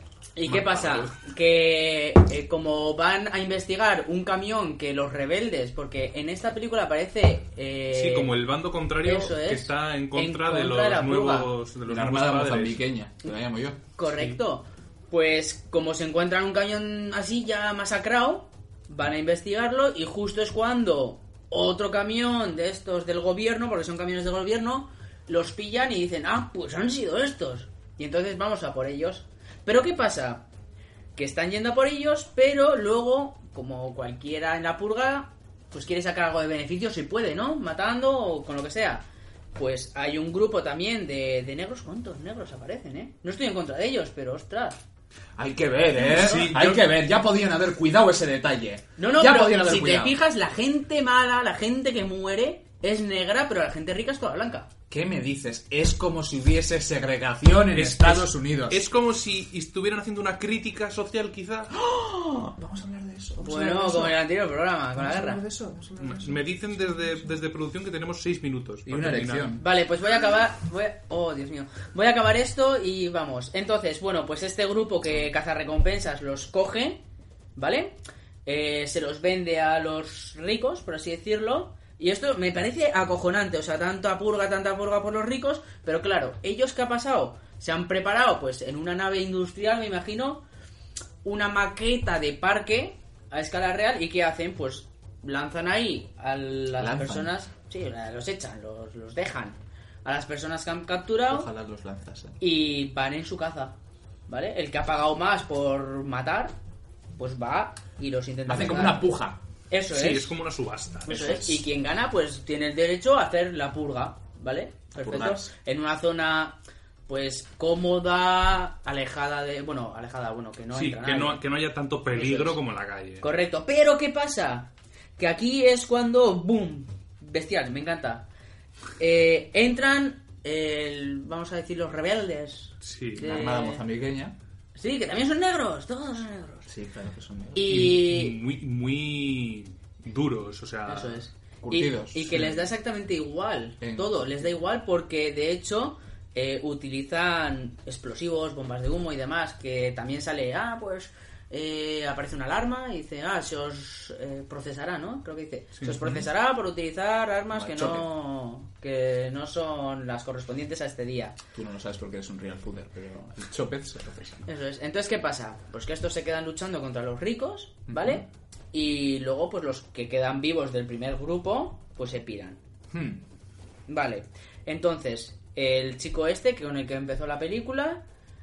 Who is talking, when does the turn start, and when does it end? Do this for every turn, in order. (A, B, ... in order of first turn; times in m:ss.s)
0:00.4-0:08.4 A
0:00.5-0:01.2 B
0:07.9-0:12.8 B
0:09.0-0:11.5 A
0:11.9-0:13.8 C
0:14.0-0:30.4 A
0:31.2-0:44.8 A
0:45.4-0:50.2 C
0:46.0-0:46.6 A
0:46.0-0:46.9 B
0:49.0-0:54.7 A
0:54.9-0:58.8 C
0:57.8-1:01.7 B
1:01.7-1:04.2 C
1:03.4-1:05.4 A
1:05.0-1:06.8 C
1:06.0-1:09.5 B
1:08.9-1:09.6 C
1:09.6-1:17.0 A
1:17.6-1:30.4 A
1:31.2-1:41.5 A
1:36.8-1:37.3 C
1:41.3-1:42.4 C
1:42.4-1:43.8 A
1:44.3-1:46.6 A
1:47.2-1:49.1 A
1:48.5-1:49.4 C
1:49.7-1:50.4 A
1:49.9-1:51.4 B
1:51.1-2:01.4 A
1:51.1-1:51.6 C
1:55.0-1:55.5 C
2:00.7-2:03.3 B
2:02.1-2:02.6 A
2:03.2-2:08.3 A
2:09.0-2:13.8 A
2:12.8-2:13.3 B
2:13.2-2:14.4 C
2:14.8-2:16.7 A
2:16.7-2:17.9 C
2:17.5-2:18.4 A
2:17.7-2:21.2 B
2:20.9-2:41.4 A
2:21.6-2:22.7 C
2:23.8-2:24.4 C
2:35.8-2:36.3 B
2:37.5-2:38.1 C
2:41.5-2:44.4 C
2:44.5-2:52.6 A
2:47.9-2:48.3 C
2:52.9-2:53.2 C
2:53.9-2:58.0 A